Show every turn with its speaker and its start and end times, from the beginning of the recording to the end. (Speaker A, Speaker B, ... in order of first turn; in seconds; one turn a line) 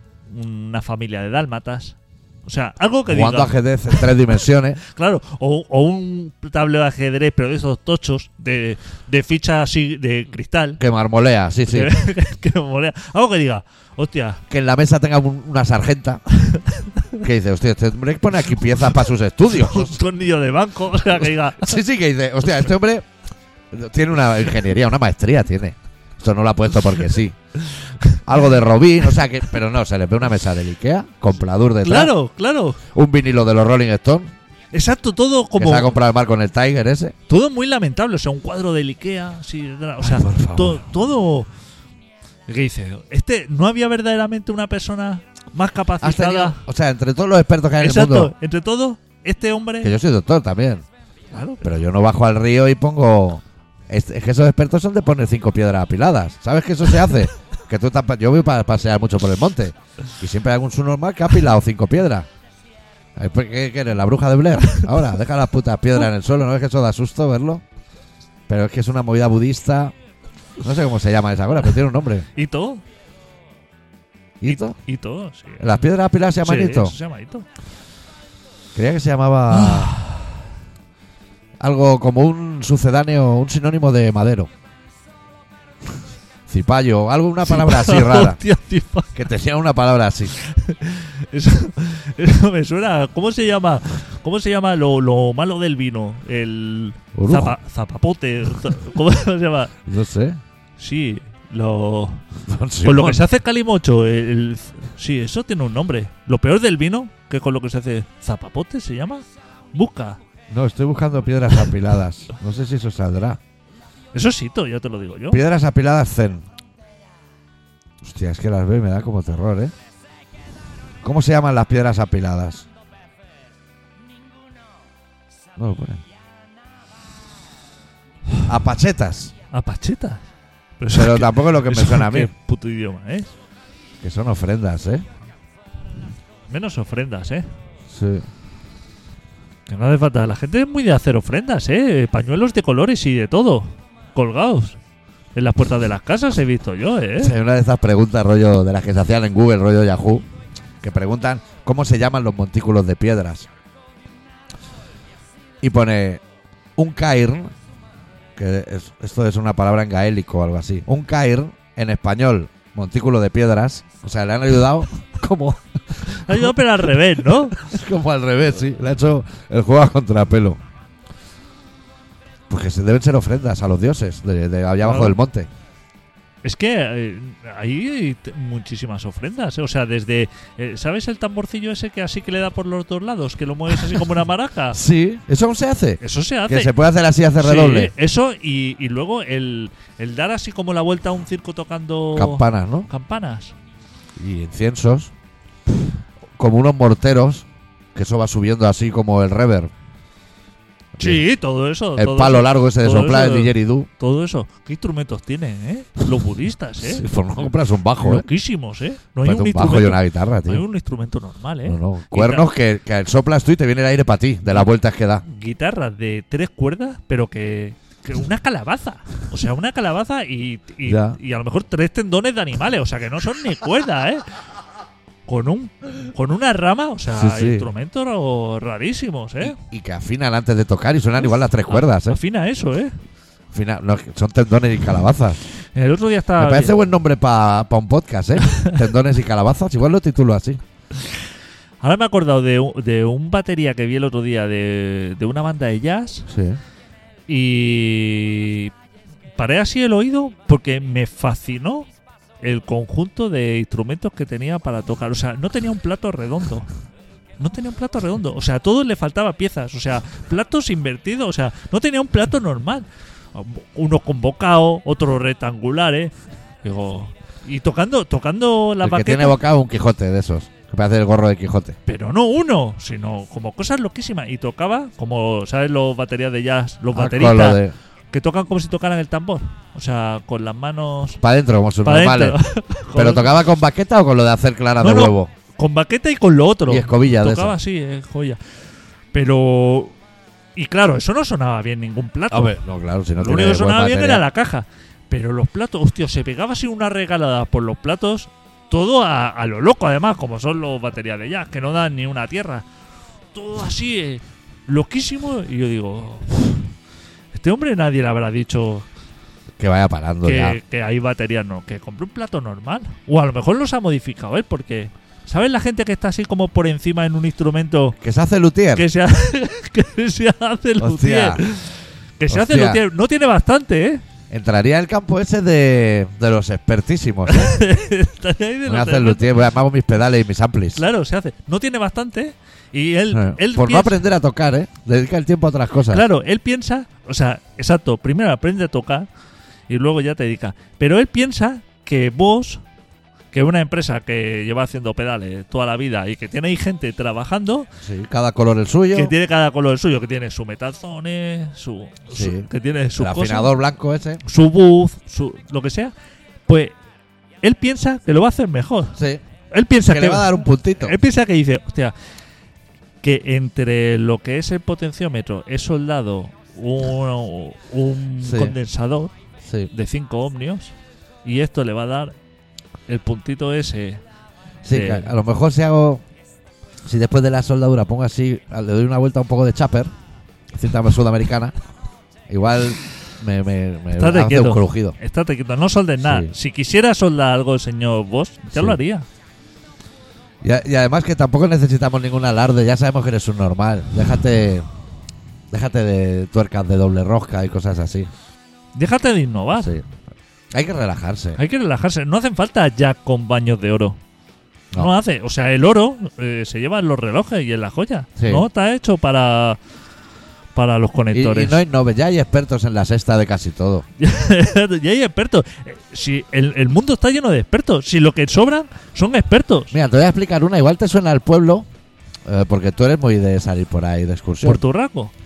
Speaker A: 0.3-4.2
Speaker B: 3.1-4.8
Speaker A: 4.8-10.8
Speaker B: 10.8-11.9
Speaker A: 11.7-14.4
Speaker B: 14.5-16.2
Speaker A: 16.3-16.9
Speaker B: 17.2-20.0
Speaker A: 19.5-21.8
Speaker B: 21.6-23.1
Speaker B: 23.7-27.4
Speaker B: 28.2-32.1
Speaker A: 31.8-32.8
Speaker B: 32.9-34.3
Speaker A: 34.7-36.0
Speaker B: 35.6-37.1
Speaker A: 37.3-41.5
Speaker B: 40.0-40.9
Speaker A: 42.5-46.6
Speaker B: 46.0-48.3
Speaker A: 47.8-49.9
Speaker B: 49.8-50.9
Speaker A: 51.3-51.7
Speaker B: 51.6-62.3
Speaker B: 63.2-67.6
Speaker B: 68.5-69.9
Speaker B: 70.6-72.3
Speaker A: 72.3-72.8
Speaker B: 74.4-74.8
Speaker A: 74.5-75.8
Speaker B: 75.6-77.0
Speaker A: 76.4-77.5
Speaker B: 78.8-80.0
Speaker A: 79.5-80.2
Speaker B: 81.6-84.5
Speaker B: 86.5-88.4
Speaker A: 87.5-89.2
Speaker B: 89.2-90.3
Speaker A: 90.3-99.7
Speaker B: 97.1-97.6
Speaker B: 99.9-100.4
Speaker A: 100.8-102.2
Speaker B: 102.4-103.2
Speaker A: 102.8-110.2
Speaker B: 110.5-113.4
Speaker A: 114.1-115.4
Speaker B: 115.3-116.5
Speaker B: 118.0-119.7
Speaker B: 121.0-122.7
Speaker B: 125.6-126.0
Speaker B: 128.5-129.3
Speaker A: 129.5-130.2
Speaker A: 130.8-133.3
Speaker B: 130.9-132.3
Speaker B: 134.0-135.0
Speaker A: 136.5-137.5
Speaker B: 137.9-138.3
Speaker A: 139.7-144.8
Speaker A: 145.3-147.3
Speaker B: 147.2-150.2
Speaker B: 150.8-153.5
Speaker B: 155.6-156.2
Speaker B: 156.8-157.5
Speaker B: 158.4-166.5
Speaker A: 166.1-167.6
Speaker B: 167.5-170.6
Speaker B: 172.5-175.5
Speaker A: 174.8-175.2
Speaker A: 176.4-184.8
Speaker B: 184.7-187.9
Speaker A: 186.0-186.7
Speaker A: 187.4-193.6
Speaker B: 192.1-192.9
Speaker B: 194.2-195.1
Speaker B: 196.4-199.7
Speaker B: 201.0-201.2
Speaker A: 201.0-212.5
Speaker B: 202.0-203.9
Speaker B: 206.8-208.3
Speaker B: 209.2-210.7
Speaker B: 211.7-215.2
Speaker A: 215.2-224.2
Speaker B: 220.8-221.2
Speaker A: 225.3-229.6
Speaker B: 227.1-227.7
Speaker B: 229.4-232.2
Speaker A: 231.7-233.0
Speaker B: 233.5-235.4
Speaker A: 235.8-236.8
Speaker B: 236.4-240.6
Speaker A: 238.5-238.7
Speaker A: 241.8-246.3
Speaker B: 246.3-246.6
Speaker A: 247.3-248.7
Speaker A: 249.4-251.9
Speaker A: 252.4-256.7
Speaker A: 257.4-269.4
Speaker B: 268.8-271.8
Speaker A: 271.9-281.2
Speaker B: 276.9-277.7
Speaker B: 281.2-282.4
Speaker A: 281.8-283.3
Speaker B: 282.9-285.3
Speaker A: 284.8-288.4
Speaker B: 286.7-287.6
Speaker A: 289.1-290.0
Speaker A: 290.6-292.6
Speaker B: 292.3-294.2
Speaker A: 293.2-302.7
Speaker A: 303.3-306.7
Speaker A: 307.3-308.9
Speaker B: 309.6-310.6
Speaker A: 310.2-318.0
Speaker B: 318.0-318.9
Speaker A: 318.8-324.0
Speaker B: 320.8-321.4
Speaker B: 322.3-322.8
Speaker B: 324.3-327.6
Speaker A: 327.3-329.4
Speaker B: 328.7-330.8
Speaker A: 330.8-334.0
Speaker B: 333.1-336.1
Speaker A: 335.9-339.1
Speaker A: 339.7-342.6
Speaker A: 343.3-347.7
Speaker B: 347.8-349.1
Speaker A: 348.9-353.6
Speaker B: 352.1-354.2
Speaker A: 354.2-355.9
Speaker A: 356.5-356.8
Speaker A: 357.4-359.0
Speaker B: 359.0-359.2
Speaker A: 359.5-361.9
Speaker B: 359.9-361.0
Speaker A: 363.0-369.1
Speaker B: 368.2-368.6
Speaker B: 369.4-369.7
Speaker A: 369.7-370.7
Speaker A: 371.2-372.1
Speaker A: 372.9-374.0
Speaker B: 374.6-376.0
Speaker A: 374.7-375.1
Speaker B: 376.9-379.9
Speaker B: 380.5-381.5
Speaker B: 382.3-385.0
Speaker A: 383.9-389.1
Speaker B: 386.0-386.3
Speaker B: 390.4-394.7
Speaker B: 395.5-398.1
Speaker A: 398.8-399.8
Speaker B: 399.6-399.8
Speaker B: 400.5-401.4
Speaker A: 401.4-404.0
Speaker A: 404.8-409.6
Speaker B: 408.2-408.4
Speaker A: 410.6-411.6
Speaker B: 411.1-413.9
Speaker A: 414.0-419.7
Speaker B: 419.7-421.7
Speaker B: 422.3-424.6
Speaker A: 424.4-425.1